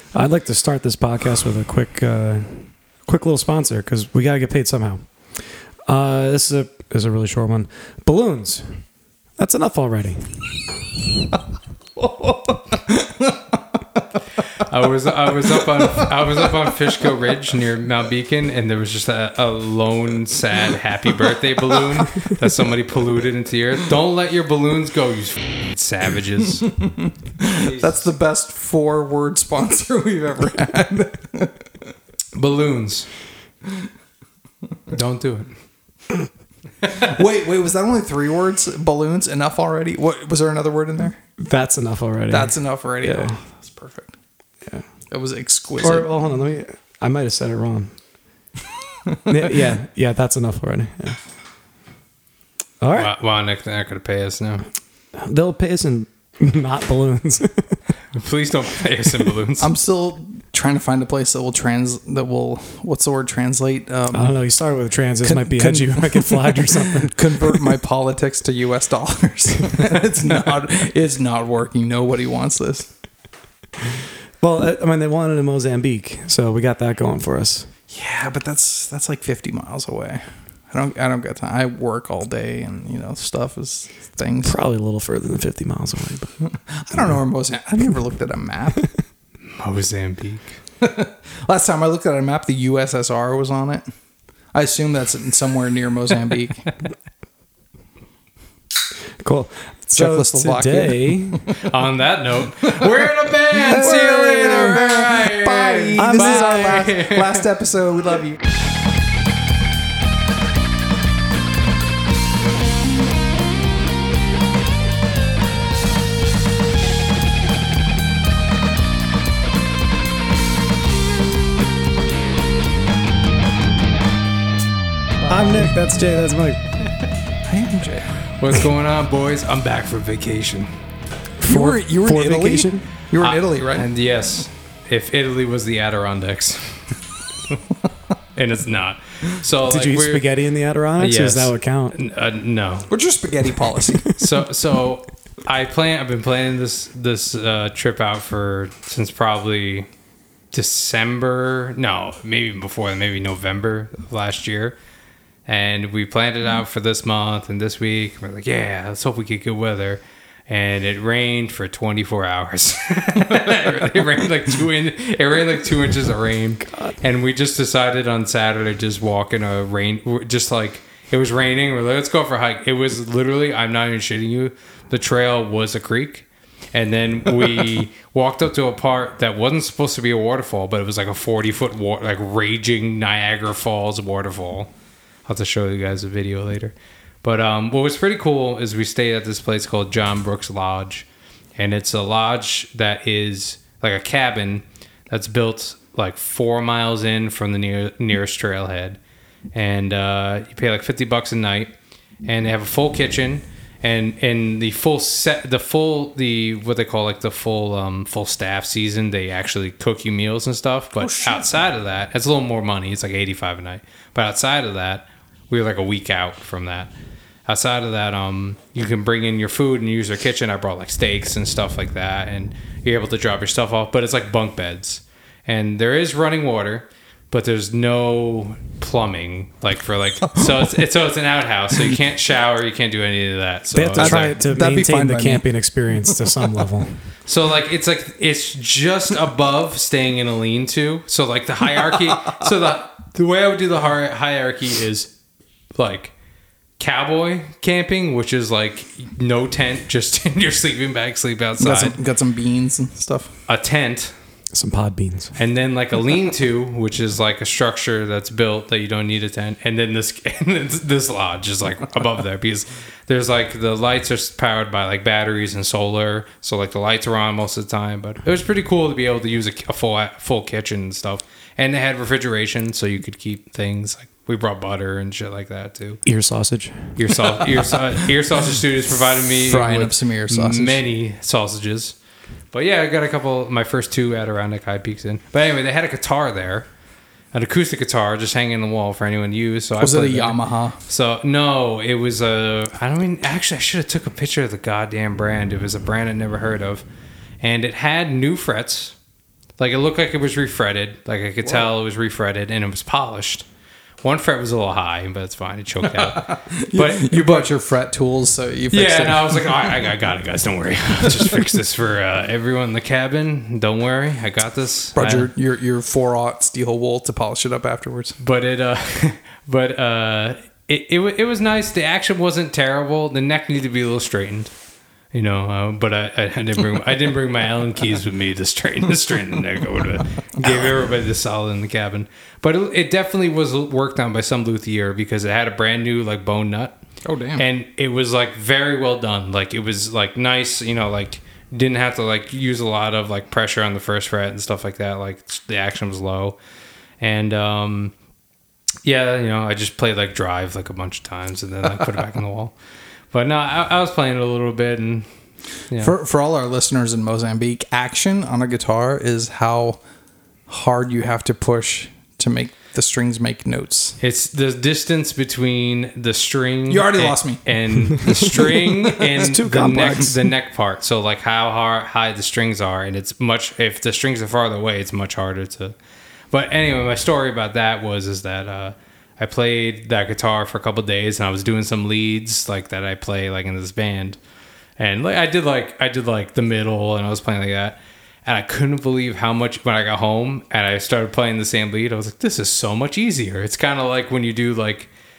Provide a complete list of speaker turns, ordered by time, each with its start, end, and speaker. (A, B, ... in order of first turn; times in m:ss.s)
0:00.1-0:05.0 A
0:05.9-0:08.8 A
0:09.4-0:10.4 A
0:12.0-0:13.6 B
0:14.6-0:26.7 C
0:26.8-0:31.6 B
0:27.6-0:28.1 C
0:32.3-0:33.1 C
0:34.9-0:35.5 C
0:37.0-0:41.2 B
0:41.4-0:43.4 A
0:42.3-0:44.1 B
0:45.1-0:46.1 B
0:45.8-0:47.9 A
0:49.3-0:51.2 A
0:52.8-0:53.1 A
0:52.9-0:54.6 C
0:55.2-0:57.8 A
0:58.1-0:59.7 C
0:59.6-1:04.4 B
1:04.1-1:07.8 A
1:05.2-1:12.9 B
1:14.4-1:17.7 A
1:17.9-1:24.6 B
1:24.4-1:26.3 A
1:26.4-1:28.8 B
1:29.5-1:30.5 C
1:30.8-1:33.8 B
1:34.5-1:36.6 B
1:39.2-1:41.4 A
1:39.9-1:41.6 B
1:41.6-1:47.4 C
1:43.6-1:48.4 B
1:44.5-1:44.7 A
1:46.0-1:46.9 A
2:05.2-2:06.6 A
2:07.5-2:08.1 B
2:08.4-2:10.7 C
2:11.4-2:12.9 A
2:11.5-2:13.8 B
2:13.2-2:16.8 C
2:18.4-2:20.2 C
2:19.6-2:22.0 A
2:21.0-2:22.9 C
2:22.9-2:24.1 B
2:24.1-2:29.9 C
2:30.5-2:34.8 C
2:35.5-3:04.7 C
3:05.2-3:19.0 C
3:19.5-3:21.7 C
3:22.2-3:36.9 C
3:31.0-3:31.6 B
3:37.5-3:54.4 C
3:53.7-3:57.0 A
3:54.0-3:55.4 B
3:57.3-4:05.1 C
4:05.7-4:06.1 C
4:06.8-4:11.9 C
4:11.6-4:13.3 B
4:13.5-4:14.1 C
4:14.5-4:15.3 A
4:15.4-4:36.0 C
4:36.0-4:37.0 A
4:37.0-4:41.9 C
4:39.4-4:40.8 B
4:42.5-4:46.7 C
4:47.3-4:56.8 C
4:49.8-4:50.8 B
4:57.4-4:59.0 C
4:59.6-5:03.4 C
5:04.0-5:07.5 C
5:05.9-5:09.8 B
5:08.7-5:15.3 C
5:14.9-5:18.2 B
5:18.2-5:24.5 C
5:25.1-5:36.8 C
5:30.4-5:30.7 B
5:37.0-5:37.4 B
5:37.4-5:46.4 C
5:47.0-5:47.9 C
5:48.8-5:52.5 C
5:53.1-5:55.1 C
5:55.8-5:59.8 B
6:00.5-6:04.0 B
6:04.0-6:15.7 C
6:06.7-6:07.4 B
6:08.2-6:09.9 B
6:09.1-6:10.3 A
6:16.3-6:24.2 C
6:24.8-6:34.9 C